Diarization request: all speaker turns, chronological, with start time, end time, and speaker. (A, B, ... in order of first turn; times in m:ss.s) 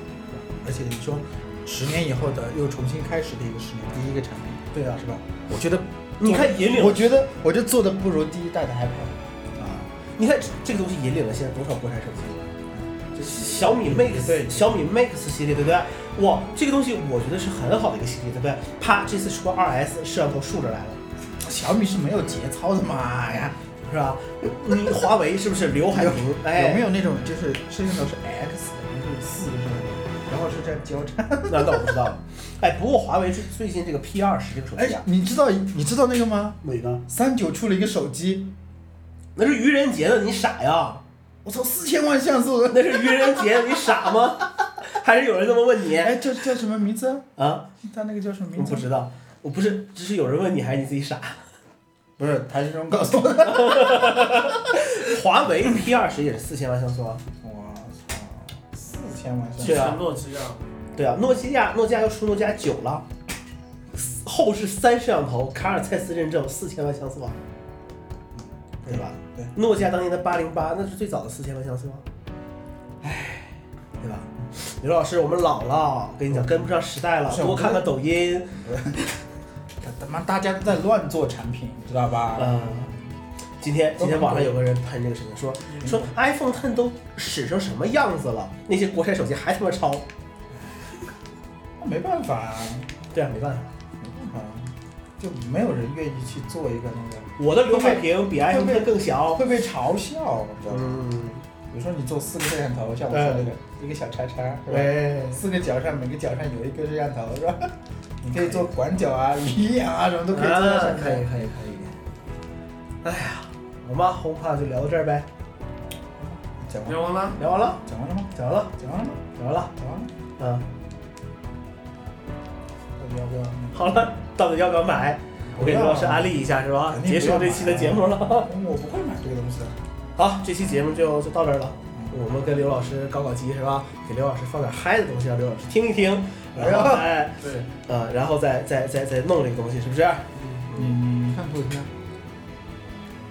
0:00.3-0:09.2 A
0:04.7-0:05.0 B
0:06.2-0:07.1 B
0:09.6-0:12.5 B
0:12.7-0:14.8 A
0:13.1-0:21.0 B
0:21.4-0:23.6 A
0:23.8-0:26.8 B
0:25.9-0:32.0 A
0:31.5-0:35.0 B
0:34.8-0:38.5 A
0:36.6-0:37.0 B
0:39.4-0:41.0 B
0:41.4-0:44.1 A
0:42.7-0:46.2 B
0:46.0-0:48.9 A
0:47.4-0:47.7 B
0:48.5-0:51.4 B
0:52.2-0:54.5 A
0:53.4-0:57.2 B
0:57.4-1:00.0 A
0:59.6-1:00.6 C
0:59.6-1:00.0 B
1:01.0-1:03.1 B
1:04.0-1:07.4 B
1:08.3-1:09.5 A
1:08.8-1:12.0 B
1:13.0-1:13.6 A
1:14.0-1:18.6 B
1:16.3-1:17.9 A
1:18.6-1:19.0 A
1:19.8-1:23.0 A
1:22.4-1:22.9 B
1:23.6-1:30.0 B
1:24.0-1:24.6 A
1:25.8-1:26.1 A
1:31.8-1:32.9 A
1:33.1-1:33.7 B
1:34.0-1:41.0 A
1:37.4-1:39.4 B
1:40.6-1:41.4 B
1:41.7-1:51.5 A
1:43.1-1:43.5 B
1:44.7-1:45.4 B
1:50.3-1:51.9 B
1:53.0-1:55.3 B
1:56.2-2:00.1 A
1:56.8-1:57.4 C
1:57.4-1:57.8 B
1:58.3-1:58.7 B
1:59.3-1:59.7 B
2:00.4-2:00.6 B
2:03.0-2:04.0 A
2:03.7-2:08.5 B
2:05.5-2:09.8 A
2:10.2-2:20.9 B
2:16.5-2:17.1 A
2:17.4-2:17.7 C
2:20.7-2:21.9 A